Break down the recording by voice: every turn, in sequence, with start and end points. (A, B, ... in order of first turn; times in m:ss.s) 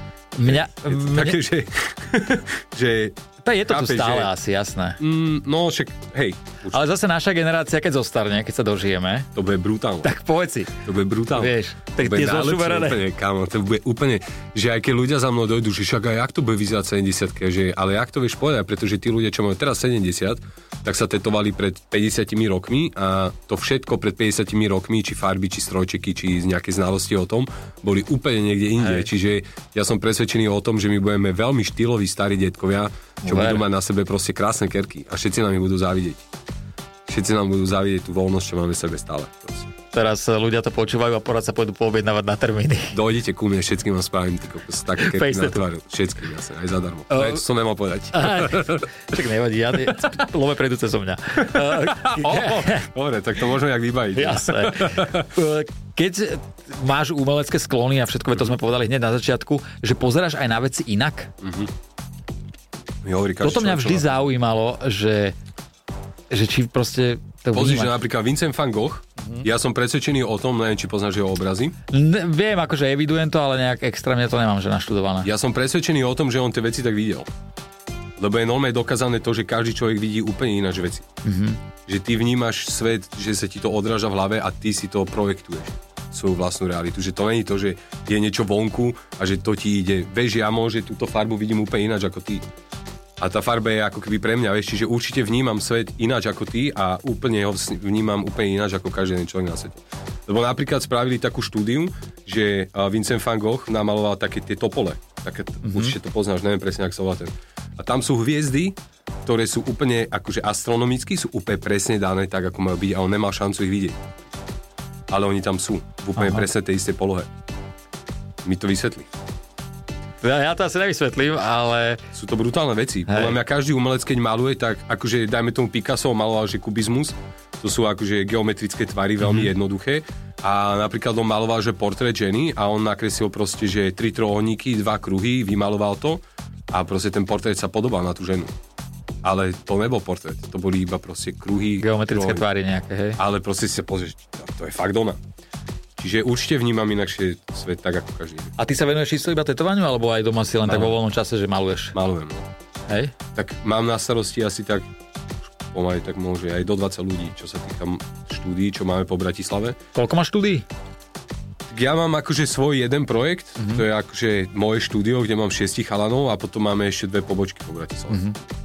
0:00.4-0:01.4 A
0:00.4-0:04.3 B
0:03.4-0:05.0 A
0:05.0-0:06.8 B
0:06.7-0:09.3 A
0:09.4-0:10.1 B
0:10.0-0:10.8 A
0:10.8-0:36.2 B
0:11.3-0:13.0 A
0:28.8-0:29.1 A
0:33.2-0:33.6 A
0:37.1-0:39.7 B
0:39.9-0:43.0 A
0:42.9-0:48.9 B
0:45.0-0:45.6 A
0:47.1-0:47.4 A
0:48.1-0:52.9 A
0:49.8-0:50.1 B
0:51.4-0:55.3 B
0:54.1-1:01.3 A
1:01.4-1:01.7 B
1:03.0-1:04.2 B
1:03.4-1:05.4 A
1:06.3-1:08.0 A
1:07.5-1:11.7 B
1:09.2-1:09.4 A
1:11.9-1:15.3 A
1:15.2-1:17.3 B
1:18.2-1:21.1 B
1:21.2-1:21.6 A
1:21.8-1:32.4 B
1:33.2-1:54.1 B
1:45.6-1:45.9 A
1:55.1-1:57.3 B
1:56.2-1:56.4 A
1:58.4-1:59.1 B
2:00.2-2:02.0 A
2:02.1-2:18.5 B
2:03.1-2:03.4 A
2:09.2-2:09.5 A
2:19.2-2:22.4 B
2:21.8-2:23.2 A
2:23.2-2:25.2 B
2:26.0-2:28.5 B
2:28.6-2:32.0 A
2:31.9-2:32.5 B
2:32.9-2:33.1 A
2:33.3-2:34.9 B
2:35.7-2:39.8 B
2:39.9-2:40.6 A
2:41.7-2:48.2 B
2:43.6-2:43.8 A
2:48.1-2:48.4 A